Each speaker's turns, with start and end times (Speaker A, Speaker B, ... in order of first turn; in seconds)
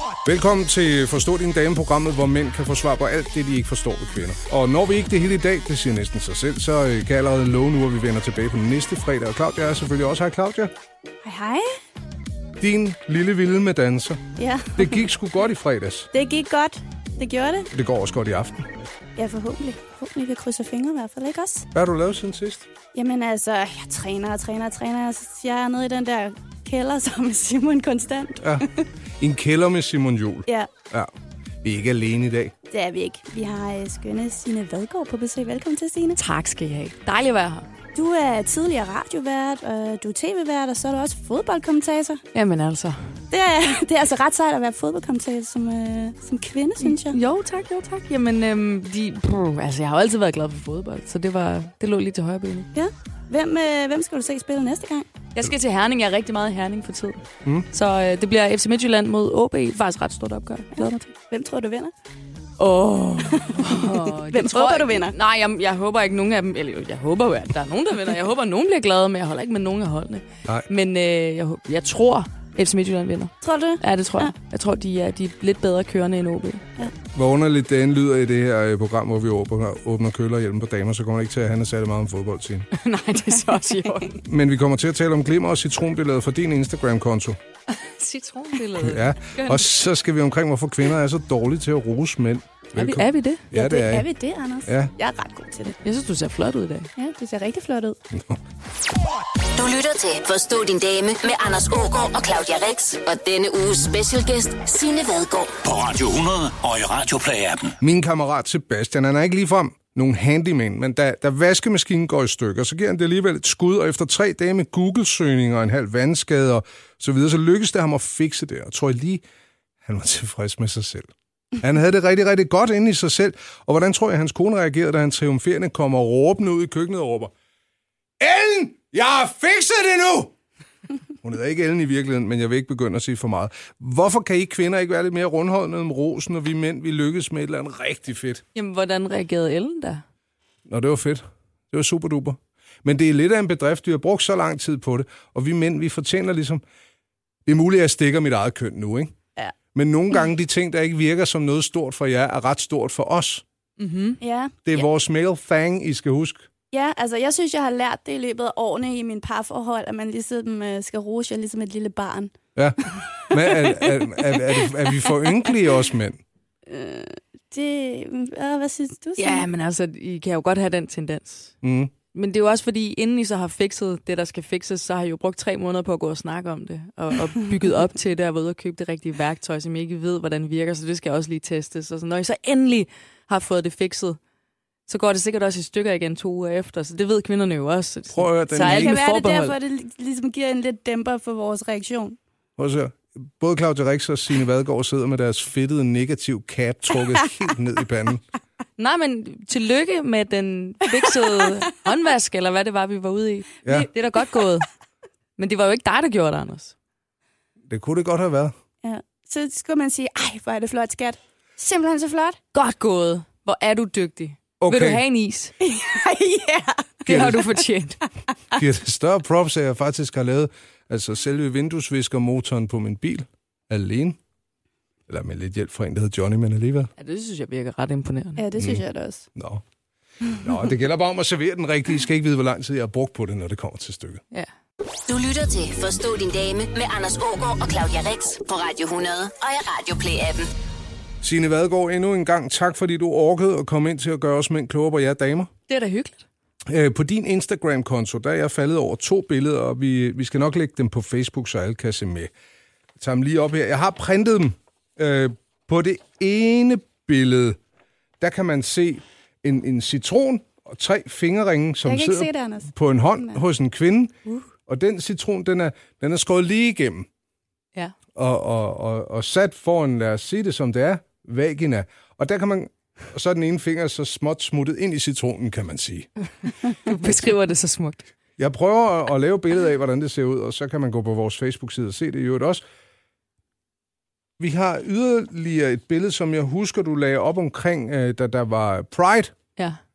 Speaker A: 0.2-10.7, 12.6-14.2, 14.8-16.1, 17.7-18.7, 21.7-22.7, 28.4-28.7, 29.2-31.1, 31.6-32.5, 77.1-82.7, 84.2-87.4, 88.8-94.1, 94.6-94.9, 98.1-98.4, 107.8-119.2, 119.8-127.3, 128.2-130.3, 131.2-138.4, 140.7-146.6, 147.4-149.1, 149.7-153.4, 154.6-156.5, 162.6-166.2, 171.6-171.9, 188.1-189.0, 192.6-198.2, 207.7-208.5, 214.6-215.0, 217.1-217.4, 218.5-224.2, 225.1-226.9, 228.6-228.8, 229.3-229.6, 230.3-234.2, 241.2-245.5, 246.7-252.3, 253.0-257.6, 258.2-267.1, 268.1-276.1, 278.4-282.6, 284.4-289.3
Speaker B: 11.2-11.7, 14.4-15.0, 16.1-17.7, 19.1-21.7, 22.9-28.9, 32.7-36.2, 37.9-42.2, 43.3-47.2, 52.7-55.1, 60.8-61.9, 63.4-65.1, 73.4-74.3, 93.5-95.8, 97.0-98.0, 154.2-154.6, 156.7-162.3, 163.5-164.3, 166.7-169.5, 188.5-192.2, 208.8-212.4, 215.6-217.1, 228.4-229.3, 261.8-263.4
Speaker C: 36.2-37.7, 42.3-43.0, 46.8-52.7, 55.3-61.1, 62.6-76.7, 82.7-84.2, 87.7-89.7, 92.7-93.5, 95.8-96.9, 138.5-140.0, 153.8-154.2, 169.2-171.5, 172.1-184.2, 184.9-189.6, 198.8-204.7, 205.4-206.7, 212.5-215.5, 217.1-218.0, 227.0-228.4, 245.7-246.2, 276.7-278.1
Speaker D: 99.5-105.6, 235.1-240.5
Speaker E: 105.6-107.8